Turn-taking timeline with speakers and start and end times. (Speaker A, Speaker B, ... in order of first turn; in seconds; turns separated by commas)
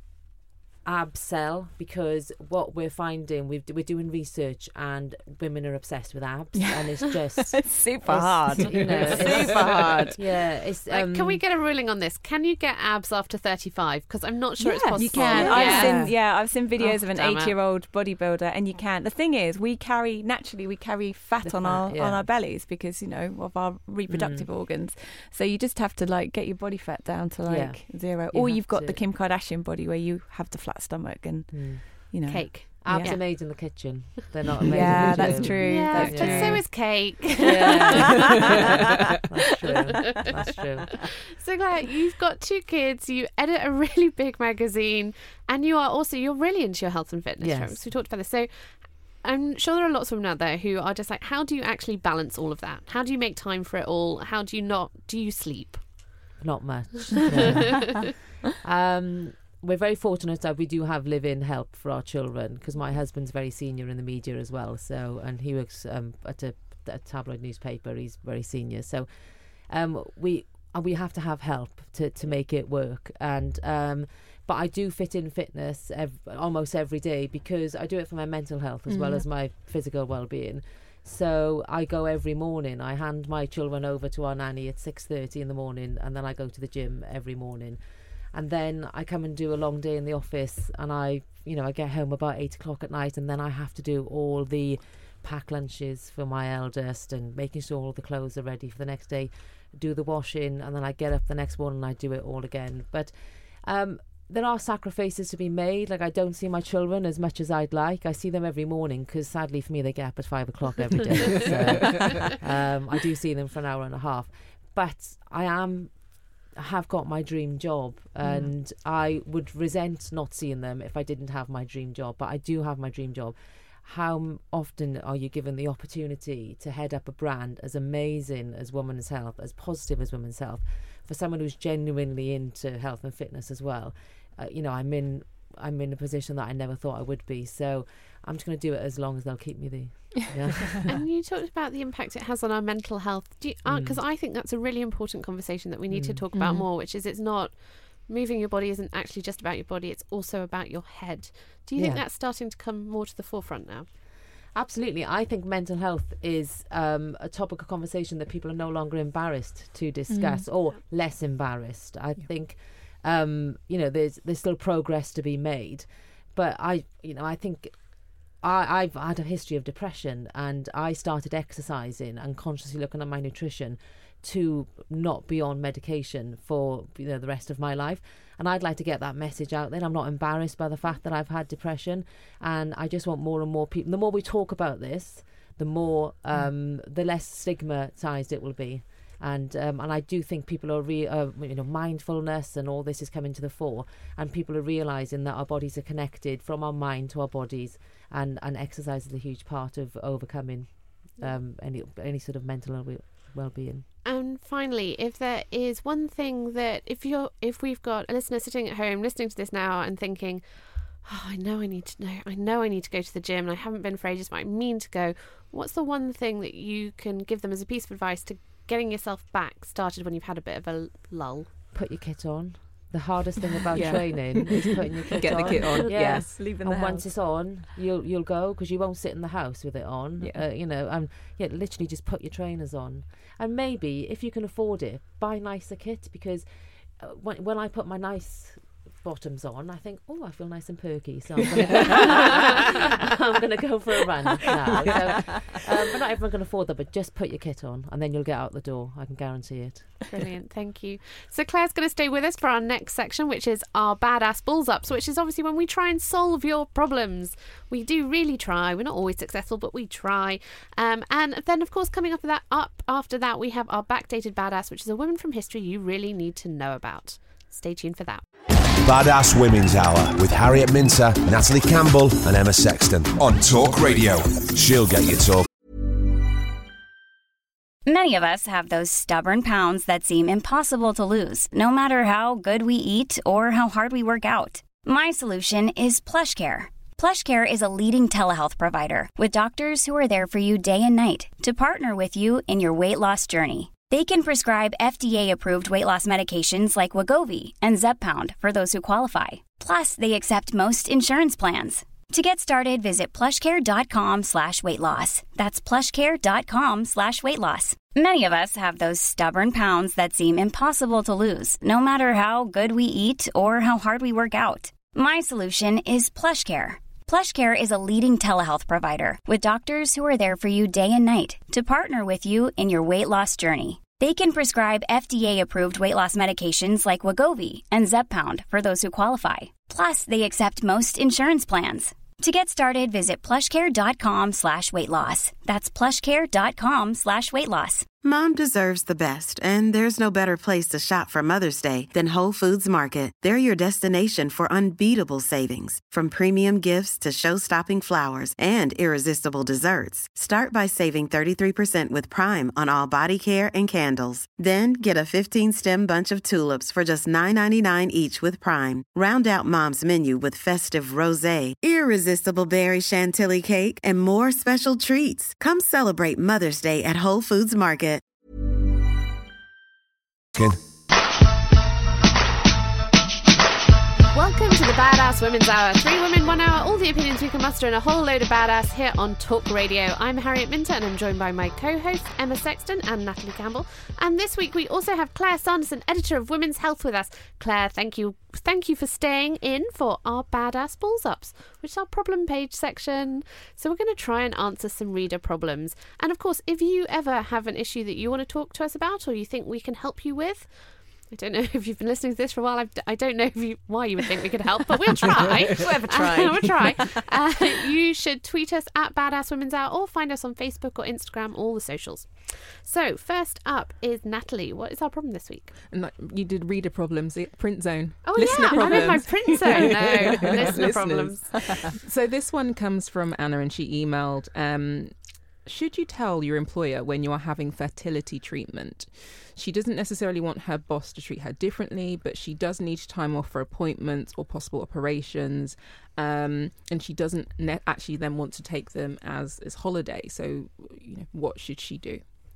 Speaker A: 0.8-11.4, Speaker B: 6.6-10.2, Speaker C: 10.9-16.1, Speaker B: 14.6-33.2, Speaker D: 15.3-16.1, Speaker A: 15.6-16.0, Speaker C: 16.8-17.5, Speaker A: 21.4-22.3, Speaker A: 24.1-24.5, Speaker A: 27.5-29.0, Speaker A: 31.5-38.6, Speaker C: 32.2-33.4, Speaker B: 34.6-36.7, Speaker C: 35.6-38.3, Speaker A: 39.1-41.1, Speaker C: 41.4-56.2, Speaker A: 47.4-47.9, Speaker A: 56.4-69.1, Speaker A: 69.6-87.8, Speaker D: 78.9-79.2, Speaker A: 88.3-140.9, Speaker D: 111.4-112.0, Speaker D: 118.2-118.5, Speaker C: 140.9-153.9, Speaker A: 143.7-144.0, Speaker A: 145.9-146.2, Speaker A: 151.8-152.0, Speaker A: 154.5-203.9, Speaker D: 160.1-160.5, Speaker C: 204.1-221.5, Speaker A: 221.7-249.9, Speaker D: 223.7-226.6, Speaker B: 225.8-227.0, Speaker C: 250.1-268.2, Speaker E: 268.8-275.5, Speaker F: 277.9-337.9, Speaker G: 338.0-368.0, Speaker C: 374.1-415.5, Speaker B: 405.1-407.0, Speaker D: 415.7-442.1, Speaker C: 418.1-421.7, Speaker B: 418.5-419.6